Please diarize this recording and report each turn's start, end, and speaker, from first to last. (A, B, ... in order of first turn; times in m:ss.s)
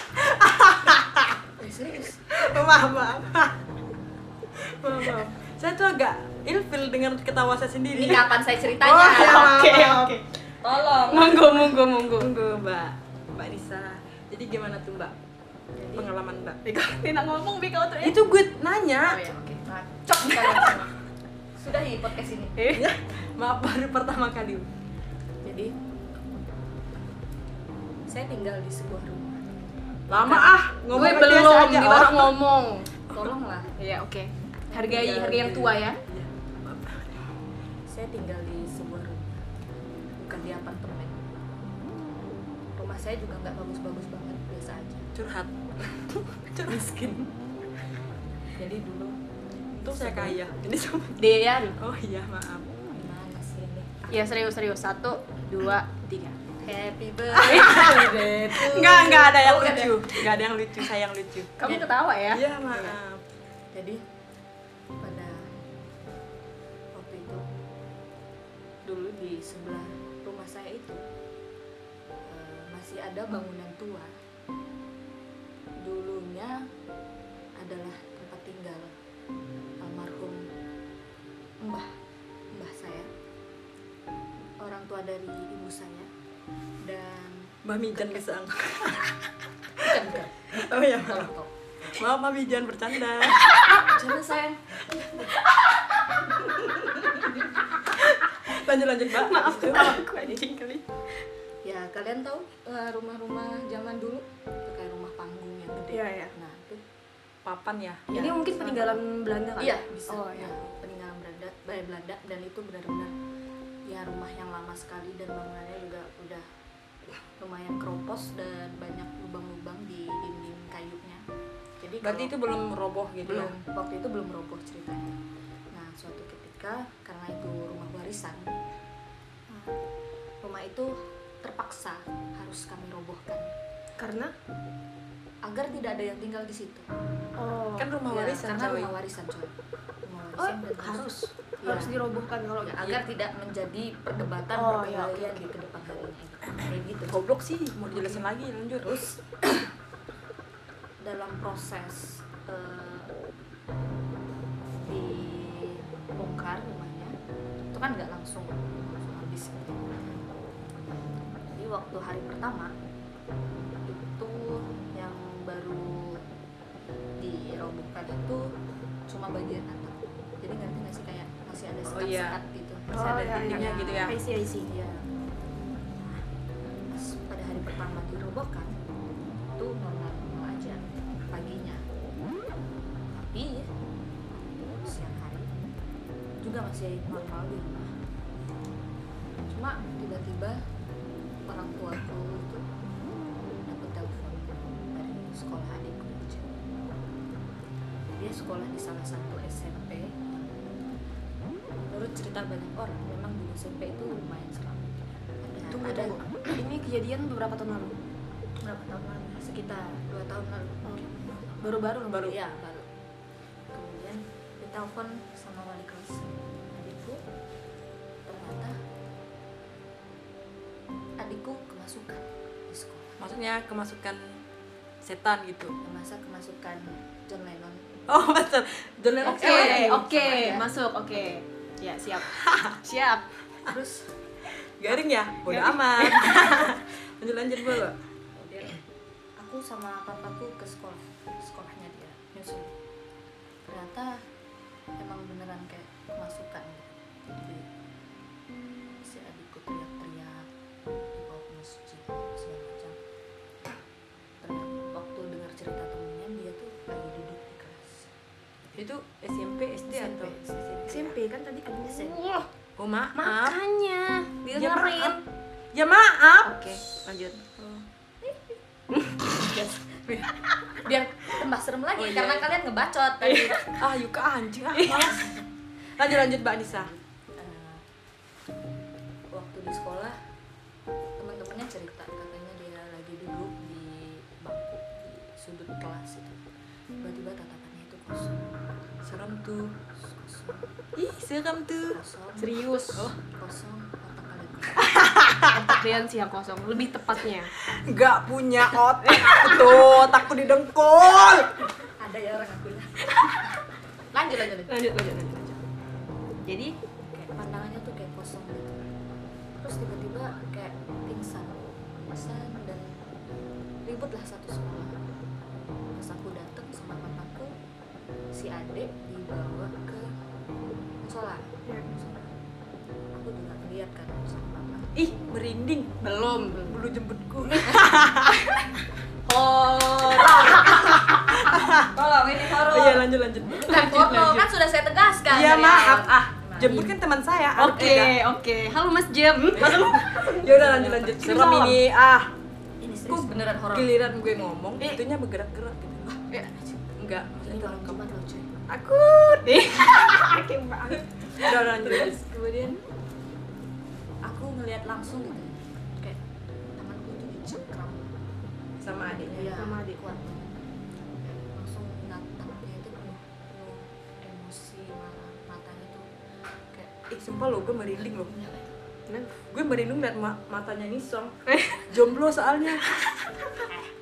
0:00.2-0:01.4 A
0:01.6-0:02.3 B
0:02.3-0:03.7 A
0:04.5-0:10.2 A
0:07.9-0:09.7 B
0:09.0-0:10.2 C
0:10.6-0:11.7 B
0:11.0-0:12.3 C
0:11.9-0:15.2 A
0:15.8-0:16.1 B
0:16.0-0:16.6 A
0:16.6-0:18.2 C
0:18.0-0:19.2 A
0:19.0-0:20.9 B
0:20.3-0:20.8 C
0:21.6-0:22.6 B
0:22.6-0:22.9 C
0:22.7-0:24.7 A
0:25.4-0:25.8 B
0:28.1-0:29.6 B
0:30.1-0:32.4 A
0:30.3-0:32.9 C
0:33.1-0:33.7 B
0:33.8-0:36.0 C
0:34.7-0:35.6 B
0:35.3-0:37.4 A
0:37.9-0:39.5 B
0:40.2-0:41.3 B
0:42.8-0:45.1 B
0:45.1-0:47.2 A
0:46.7-0:47.2 B
0:48.6-0:49.2 B
0:49.7-0:50.4 B
0:49.8-0:52.7 A
0:51.2-0:51.8 C
0:52.9-0:54.2 B
0:54.1-0:56.4 C
0:56.6-1:00.2 B
0:57.3-1:01.6 A
0:57.5-0:58.3 C
1:01.6-1:02.4 C
1:01.6-1:01.9 B
1:02.3-1:03.2 A
1:03.7-1:04.0 B
1:05.0-1:05.6 B
1:06.9-1:07.4 B
1:08.9-1:11.0 B
1:12.3-1:14.1 B
1:15.8-1:16.7 B
1:17.6-1:19.0 B
1:19.8-1:20.5 B
1:21.6-1:21.9 B
1:22.5-1:23.1 B
1:24.6-1:26.1 B
1:26.8-1:28.1 B
1:27.6-1:29.9 A
1:29.8-1:32.0 B
1:30.5-1:31.3 A
1:31.9-1:33.6 A
1:33.5-1:35.4 B
1:35.3-1:36.6 C
1:36.5-1:37.3 B
1:37.9-1:40.0 A
1:39.1-1:41.2 C
1:39.9-1:40.4 B
1:41.6-1:46.8 B
1:45.9-1:46.3 C
1:47.4-1:48.1 A
1:48.1-1:50.5 C
1:48.1-1:49.0 B
1:49.6-1:53.1 B
1:53.9-1:56.5 B
1:57.4-2:01.2 B
2:01.8-2:02.3 B
2:02.0-2:03.5 A
2:03.2-2:05.2 B
2:05.7-2:08.6 B
2:09.5-2:09.8 B
2:10.4-2:13.5 B
2:14.0-2:14.3 C
2:15.4-2:16.9 B
2:17.4-2:17.9 C
2:17.8-2:18.9 A
2:18.1-2:19.5 B
2:20.0-2:22.0 B
2:20.4-2:23.0 C
2:22.6-2:27.2 B
2:24.6-2:25.5 C
2:27.1-2:29.0 A
2:27.9-2:28.2 B
2:28.8-2:29.6 B
2:31.0-2:33.1 B
2:34.8-2:37.2 B
2:37.7-2:40.2 B
2:41.6-2:42.7 B
2:43.9-2:46.2 B
2:47.2-2:48.5 B
2:49.1-2:55.1 B
2:51.9-2:52.4 A
2:52.9-2:54.7 C
2:53.0-2:54.2 A
2:56.0-2:56.2 B
2:56.9-2:58.7 B
2:59.6-3:01.8 B
3:03.1-3:03.7 B
3:04.4-3:05.5 B
3:06.4-3:07.9 B
3:09.5-3:10.6 B
3:11.5-3:12.7 B
3:13.7-3:16.5 B
3:18.2-3:20.6 B
3:21.9-3:26.6 B
3:25.6-3:28.0 C
3:28.6-3:32.9 B
3:31.6-3:32.4 C
3:33.7-3:37.2 B
3:38.3-3:38.8 B
3:41.2-3:43.2 B
3:43.2-3:44.4 A
3:45.0-3:45.8 A
3:45.8-3:48.0 B
3:48.1-3:50.0 A
3:49.2-3:50.7 B
3:49.2-3:53.3 C
3:52.3-3:52.8 A
3:53.6-3:54.1 B
3:54.8-3:58.0 A
3:55.5-3:56.6 C
3:58.4-3:58.8 B
3:59.4-4:02.7 B
4:03.7-4:04.2 B
4:05.0-4:07.7 B
4:09.0-4:10.5 B
4:11.2-4:13.0 B
4:14.4-4:18.1 B
4:18.8-4:20.4 A
4:19.9-4:21.1 B
4:20.9-4:22.5 C
4:20.9-4:21.2 A
4:21.8-4:22.2 B
4:22.8-4:23.6 A
4:23.2-4:25.2 C
4:24.5-4:25.2 A
4:25.7-4:27.8 A
4:26.4-4:27.3 C
4:28.2-4:28.5 B
4:29.2-4:33.6 B
4:32.0-4:32.5 A
4:33.2-4:33.8 C
4:33.8-4:35.4 A
4:34.7-4:35.2 C
4:36.0-4:36.9 A
4:36.7-4:37.8 B
4:39.3-4:40.2 B
4:41.2-4:46.4 B
4:47.0-4:48.4 B
4:49.0-4:49.8 A
4:50.0-4:50.7 B
4:51.0-4:52.0 A
4:51.9-4:55.0 B
4:52.4-4:53.1 C
4:54.8-4:55.8 A
4:55.5-4:57.5 C
4:57.6-5:01.6 A
4:59.0-5:00.1 C
5:01.8-5:03.6 B
5:03.1-5:03.4 C
5:04.1-5:04.9 B
5:04.7-5:05.6 C
5:06.4-5:06.8 C
5:07.1-5:08.8 B
5:09.6-5:13.0 B
5:13.8-5:15.0 B
5:15.9-5:17.5 B
5:18.3-5:20.1 B
5:21.0-5:22.4 B
5:23.1-5:25.0 B
5:25.0-5:26.0 A
5:26.0-5:26.7 C
5:26.5-5:28.6 A
5:27.6-5:27.9 B
5:27.7-5:28.6 C
5:29.3-5:31.0 C
5:29.3-5:36.8 B
5:31.0-5:31.9 A
5:32.5-5:34.5 A
5:35.3-5:38.2 A
5:36.6-5:36.9 C
5:37.6-5:41.8 C
5:39.5-5:42.3 A
5:42.8-5:44.4 B
5:43.1-5:46.3 A
5:46.0-5:46.7 B
5:46.9-5:48.0 A
5:47.4-5:48.5 B
5:48.7-5:50.0 A
5:49.5-5:51.6 C
5:51.4-5:52.3 A
5:51.8-5:52.8 B
5:54.2-5:56.2 B
5:56.8-5:58.1 B
5:58.8-5:59.6 A
5:59.1-6:00.0 C
5:59.2-6:06.1 B
6:06.7-6:07.1 B
6:07.1-6:08.3 A
6:08.2-6:08.7 B
6:09.1-6:09.4 C
6:09.5-6:13.7 A
6:11.5-6:11.8 C